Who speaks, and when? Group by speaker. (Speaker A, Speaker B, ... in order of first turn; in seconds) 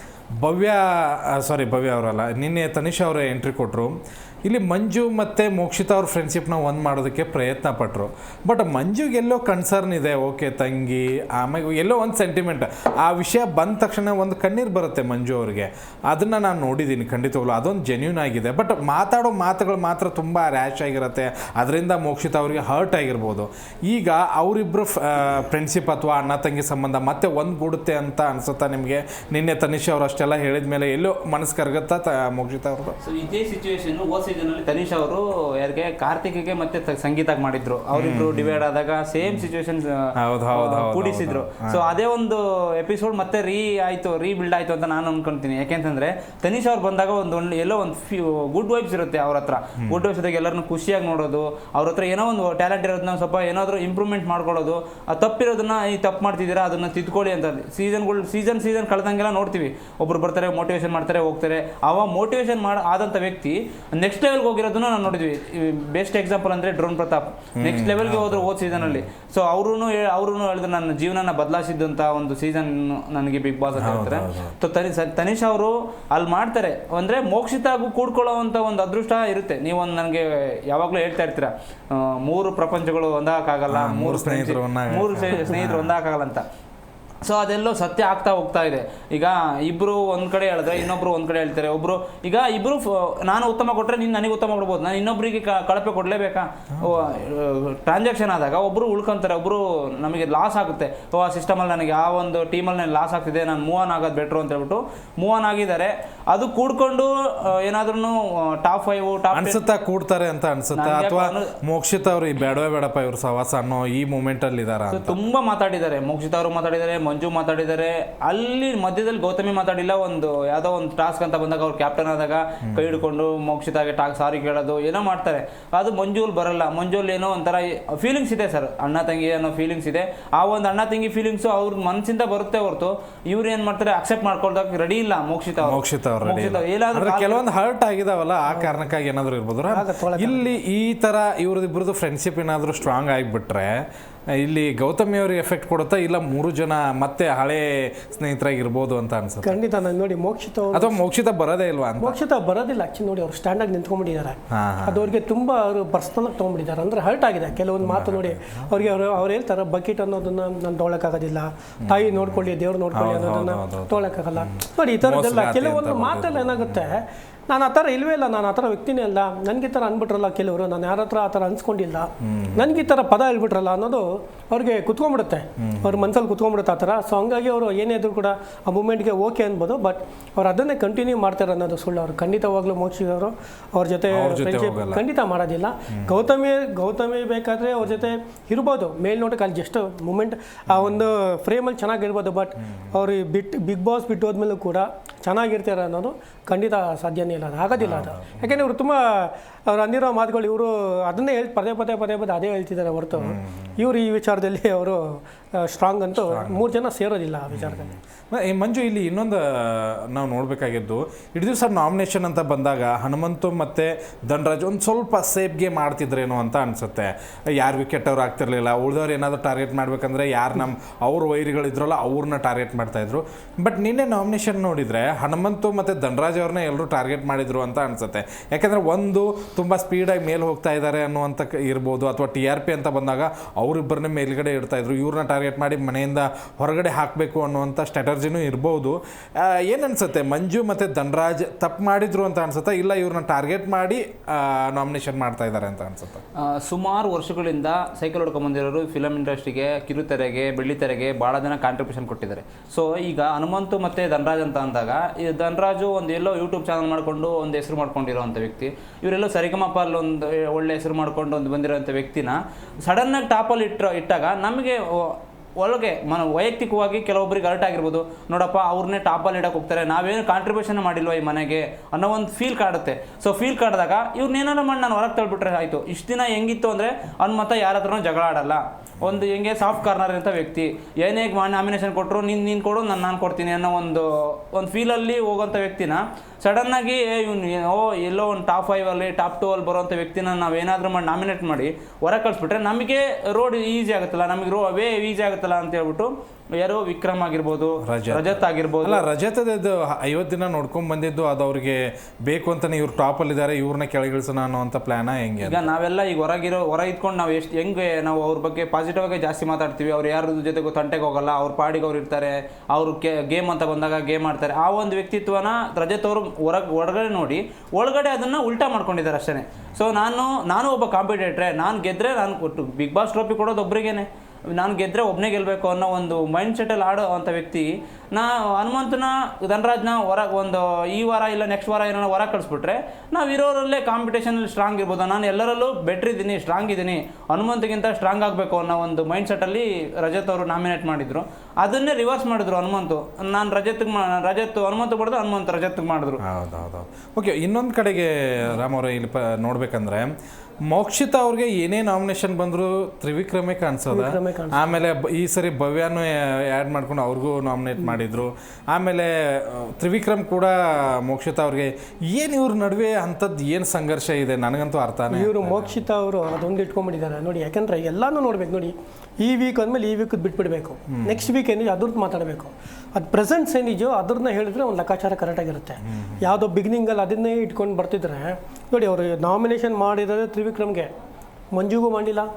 Speaker A: 0.4-33.0, 37.9-38.6, 40.2-41.9, 67.6-69.0, 73.7-74.5, 83.7-85.9, 96.8-97.0, 109.3-115.2, 122.7-123.0, 135.6-143.8, 144.4-149.6, 150.7-152.2, 154.5-155.1, 157.8-159.0, 161.8-166.9, 172.2-172.8, 175.6-176.1, 184.1-185.0, 190.7-191.0, 197.8-198.5, 203.2-203.7, 206.1-206.6, 207.5-246.2, 297.8-305.7, 346.2-350.1, 350.7-365.8, 370.9-371.2, 375.8-376.2
Speaker B: 33.0-86.4, 87.2-109.6, 110.8-111.5, 114.9-137.4, 246.4-299.0, 305.4-346.2
Speaker C: 139.7-140.6, 149.4-151.0, 152.0-207.9, 353.9-354.8, 365.1-380.9, 381.5-382.3